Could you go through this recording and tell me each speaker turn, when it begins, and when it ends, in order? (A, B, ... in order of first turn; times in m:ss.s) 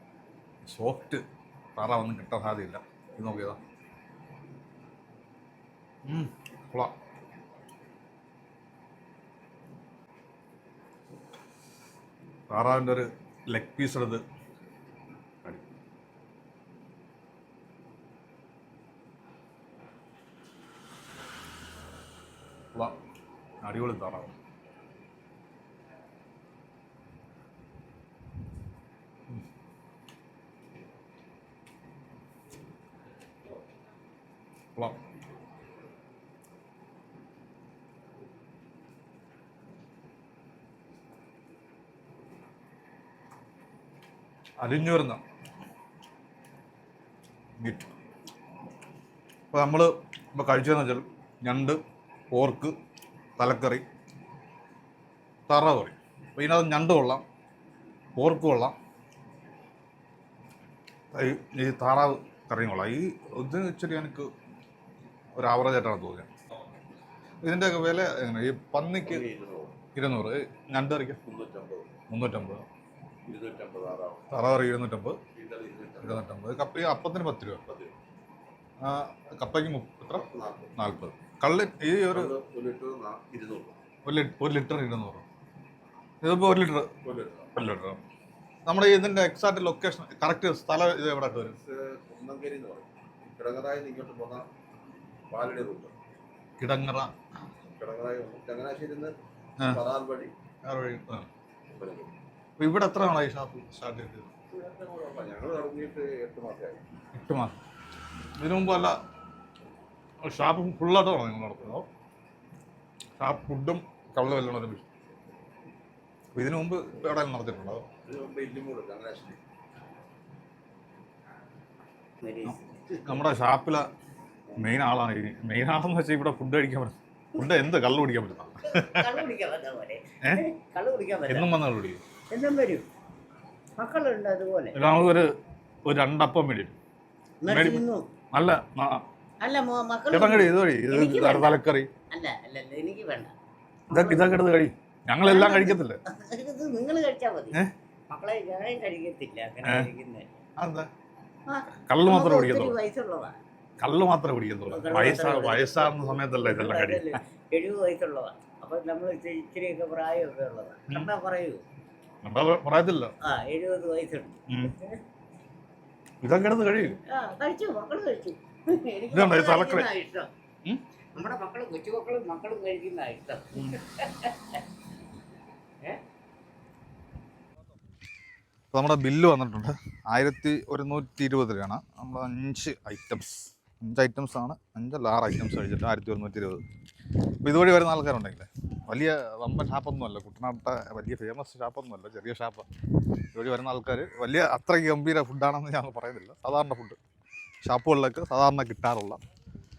0:00.7-0:01.2 A
0:01.8-0:03.6 A
0:06.0-0:06.9 A
0:12.5-0:14.2 A
0:23.6-0:24.3 A
0:44.6-0:45.2 A
0:47.6-0:47.9 A
0:49.5-0:51.8 A
0:52.3-0:52.7 A
0:53.4-0:53.8 A
0:55.5-0:57.2 A
0:58.2-0:58.7 A
1:01.1-1:04.3 A
1:05.4-1:06.3 A
1:07.4-1:09.2 A
1:09.0-1:09.8 B
1:09.9-1:11.2 A
1:11.2-1:11.9 B
1:12.1-1:12.6 A
1:13.3-1:14.3 B
1:14.3-1:15.2 A
1:15.3-1:16.2 B
1:16.0-1:17.6 A
1:17.6-1:17.9 B
1:18.8-1:22.3 A
1:20.2-1:20.8 B
1:22.2-1:23.8 B
1:24.0-1:25.2 A
1:26.2-1:26.9 A
1:27.0-1:27.5 B
1:27.6-1:28.0 A
1:28.6-1:31.6 A
1:31.6-1:34.5 B
1:35.3-1:35.9 B
1:36.6-1:37.1 A
1:37.8-1:39.2 B
1:39.6-1:39.8 A
1:39.7-1:40.3 B
1:40.6-1:41.3 A
1:41.7-1:42.1 B
1:42.6-1:44.3 A
1:44.5-1:46.8 B
1:47.1-1:47.6 A
1:48.4-1:49.0 A
1:50.2-1:51.9 A
1:53.2-1:54.9 A
1:56.3-1:57.8 A
1:58.0-1:59.4 B
2:02.2-2:02.8 C
2:02.4-2:03.9 A
2:04.6-2:09.2 A
2:08.6-2:11.5 C
2:11.3-2:12.0 A
2:12.3-2:12.8 C
2:13.8-2:14.8 C
2:14.7-2:15.3 A
2:15.8-2:16.8 A
2:17.4-2:18.1 C
2:17.5-2:19.0 A
2:19.4-2:21.6 C
2:20.1-2:21.9 A
2:22.1-2:23.3 C
2:23.9-2:26.0 A
2:23.9-2:24.3 C
2:25.2-2:27.6 C
2:28.1-2:30.3 C
2:29.6-2:29.9 A
2:30.6-2:30.9 A
2:31.5-2:33.4 C
2:31.8-2:32.8 A
2:33.8-2:37.2 A
2:34.7-2:41.6 C
2:42.2-2:43.1 A
2:43.2-2:45.0 C
2:44.5-2:44.8 A
2:46.2-2:47.0 A
2:47.1-2:50.3 C
2:49.1-2:49.9 A
2:51.1-2:54.6 C
2:58.7-3:06.6 A
3:07.4-3:12.6 A
3:13.3-3:17.0 A
3:17.6-3:19.2 A